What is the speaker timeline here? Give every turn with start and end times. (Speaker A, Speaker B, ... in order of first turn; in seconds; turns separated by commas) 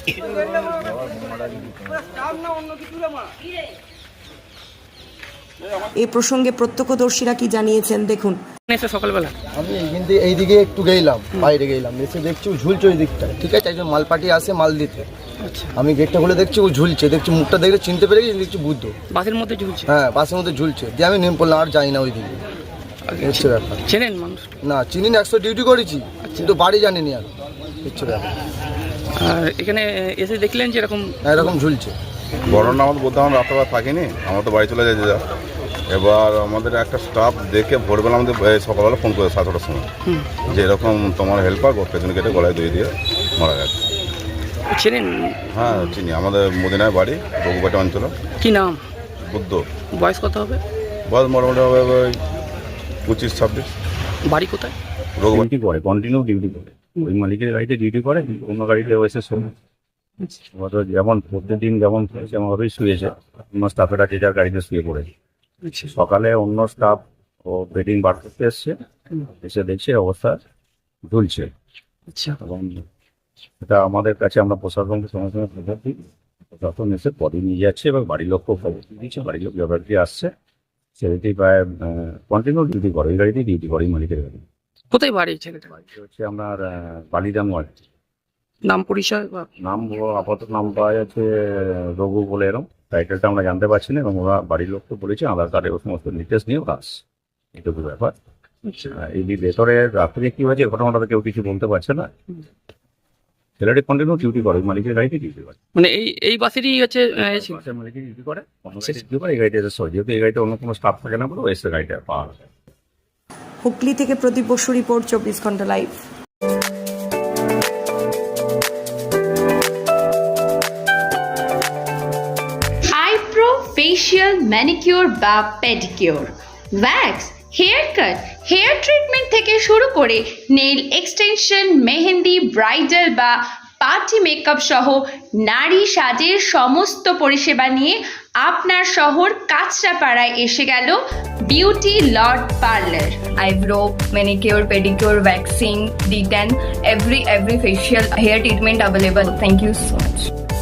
Speaker A: 6.0-8.4, Speaker B: 8.7-9.3, Speaker C: 9.6-15.1, Speaker B: 15.4-15.7, Speaker C: 15.8-18.9, Speaker B: 19.1-19.9, Speaker C: 19.9-22.3, Speaker B: 23.1-24.5, Speaker C: 23.2-23.8, Speaker C: 24.6-27.3, Speaker B: 26.2-26.5, Speaker C: 27.8-28.3, Speaker B: 29.1-31.5, Speaker C: 31.3-31.9, Speaker D: 32.5-35.2, Speaker D: 35.9-39.9, Speaker D: 40.5-43.8, Speaker B: 44.7-45.9, Speaker D: 45.5-48.1, Speaker B: 48.4-48.8, Speaker D: 49.2-49.6, Speaker B: 49.9-50.6, Speaker D: 51.1-52.2, Speaker D: 53.1-53.7, Speaker B: 54.3-54.7, Speaker D: 55.2-55.4, Speaker E: 55.3-59.5, Speaker E: 60.5-65.1, Speaker B: 65.6-65.9, Speaker E: 65.9-70.4, Speaker E: 71.1-71.5, Speaker B: 72.1-72.4, Speaker E: 72.4-72.8, Speaker E: 73.6-80.3, Speaker E: 81.0-84.4, Speaker B: 84.9-85.7, Speaker E: 85.8-87.8, Speaker B: 88.7-89.5, Speaker E: 89.6-97.0, Speaker E: 97.5-98.2, Speaker E: 98.7-102.1, Speaker E: 103.6-105.6, Speaker B: 105.8-107.6, Speaker E: 107.3-112.4, Speaker A: 113.6-116.0, Speaker F: 122.9-141.0, Speaker F: 141.5-143.2, Speaker G: 143.4-150.3